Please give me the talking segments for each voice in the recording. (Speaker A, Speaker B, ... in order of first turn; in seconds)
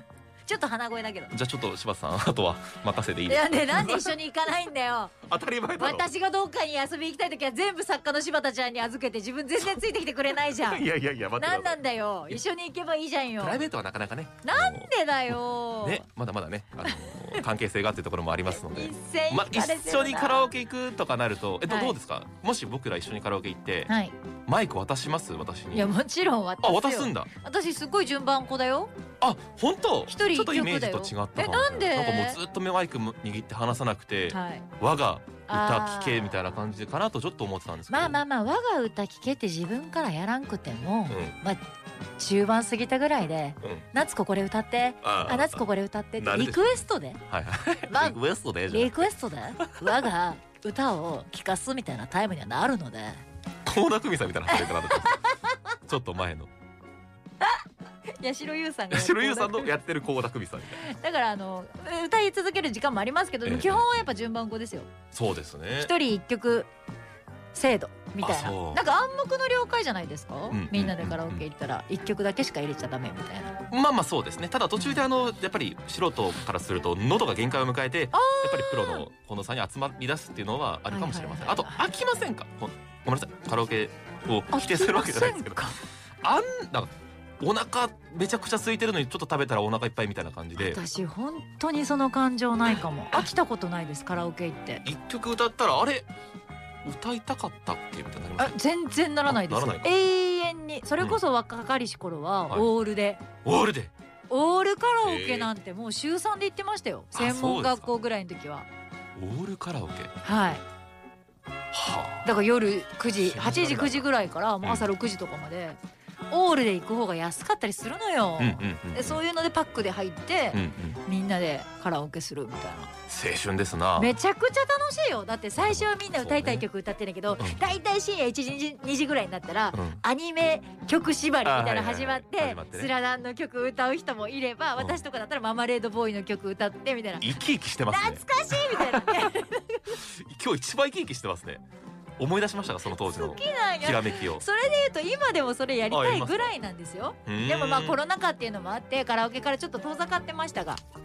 Speaker A: 0.4-1.3, 3.3-5.2, 5.8-10.8, 11.4-13.6, 14.4-16.1, 16.8-17.4, 18.5-20.5, 21.6-22.0, 23.9-24.1, 25.7-28.9, 30.1-32.4, 34.3-34.7, 35.5-36.4, 37.9-41.6, 42.2-47.2, 47.9-53.2, 54.5-55.5, 58.2-59.7, 60.7-64.9, 65.8-66.7, 67.5-73.6, 74.8-75.0, 78.1-79.0, 80.9-81.8, 84.5-85.8, 90.5-94.8, 98.4-103.2, 104.3-108.7, 110.2-110.6, 112.2-115.8, 116.3-122.9, 124.0-140.0, 142.9-150.8
Speaker B: 1.3-4.2, 5.2-6.1, 10.6-11.8, 13.4-14.9, 15.8-23.9, 24.5-25.9, 26.6-27.3, 29.2-38.2, 41.1-41.4, 45.0-45.6, 46.2-49.9, 53.6-55.2, 55.9-56.5, 58.9-60.9, 63.4-63.9, 65.1-65.9, 68.2-68.8, 70.5-71.4, 73.7-85.6, 86.2-90.8, 94.8-96.1, 96.8-98.5, 99.2-99.9, 103.4-103.9, 105.0-105.5, 107.1-107.9, 109.2-110.1, 111.7-112.3, 113.2-114.0, 118.4-119.2, 120.5-121.0, 123.1-124.1, 125.6-126.6, 129.7-130.0, 131.4-132.9, 137.2-139.3, 139.9-141.6, 142.2-144.4, 145.9-146.5, 147.3-148.0